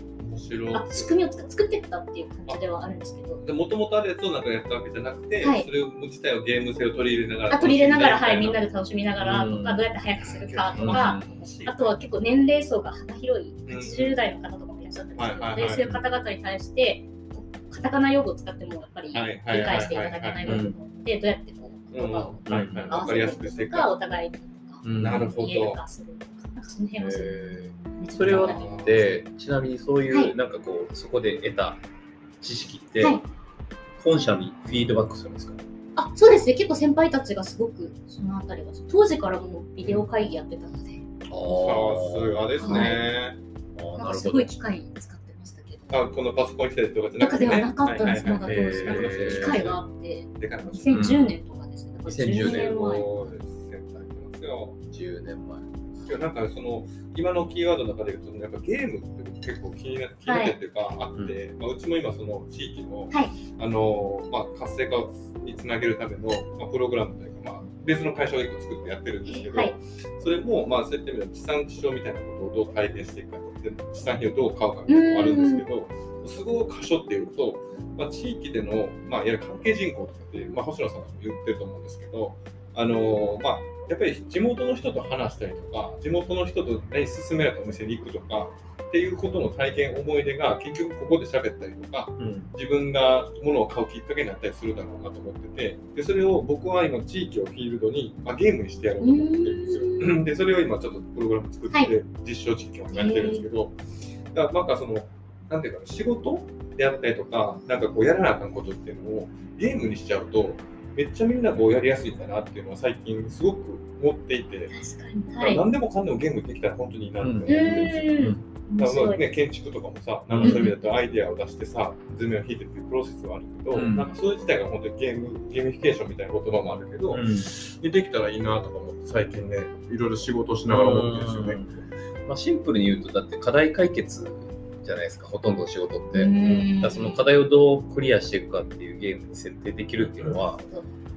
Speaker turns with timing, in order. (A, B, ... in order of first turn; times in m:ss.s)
0:00.2-0:01.2 A
0:00.7-0:03.4 B
0:03.4-0:08.6 A
0:05.4-0:05.7 B
0:07.5-0:29.2 B
0:09.2-0:09.8 C
0:10.2-0:12.0 A
0:10.7-0:11.4 C
0:13.6-0:14.2 A
0:15.2-0:15.9 A
0:19.1-0:20.7 A
0:20.4-0:20.8 C
0:21.9-0:23.9 A
0:22.4-0:23.0 C
0:24.8-0:25.4 C
0:24.9-0:25.8 A
0:27.0-0:31.8 C
0:28.2-0:29.0 A
0:30.1-0:30.3 B
0:32.4-0:33.2 C
0:33.0-0:33.2 B
0:34.0-0:35.6 C
0:36.0-0:41.0 B
0:41.3-0:43.0 C
0:41.5-0:43.4 A
0:42.6-0:43.0 B
0:43.8-0:44.5 C
0:44.0-0:46.1 B
0:45.9-0:49.8 A
0:47.2-0:53.1 B
0:48.4-0:49.7 C
0:50.3-0:51.2 A
0:50.9-0:51.3 C
0:52.0-0:52.7 C
0:52.4-0:54.8 A
0:54.8-0:55.7 C
0:56.0-1:43.8 A
1:00.2-1:00.6 B
1:09.2-1:09.8 B
1:14.9-1:15.6 B
1:32.2-1:32.5 C
1:39.0-1:40.2 B
1:42.9-1:43.4 B
1:44.3-1:54.7 A
1:54.7-1:55.6 B
1:55.4-2:11.6 A
1:57.2-1:58.4 C
1:57.5-1:59.2 B
2:00.3-2:00.7 C
2:00.4-2:00.8 B
2:03.7-2:04.1 C
2:07.1-2:07.5 C
2:10.7-2:20.6 C
2:16.1-2:17.2 B
2:20.6-2:20.9 B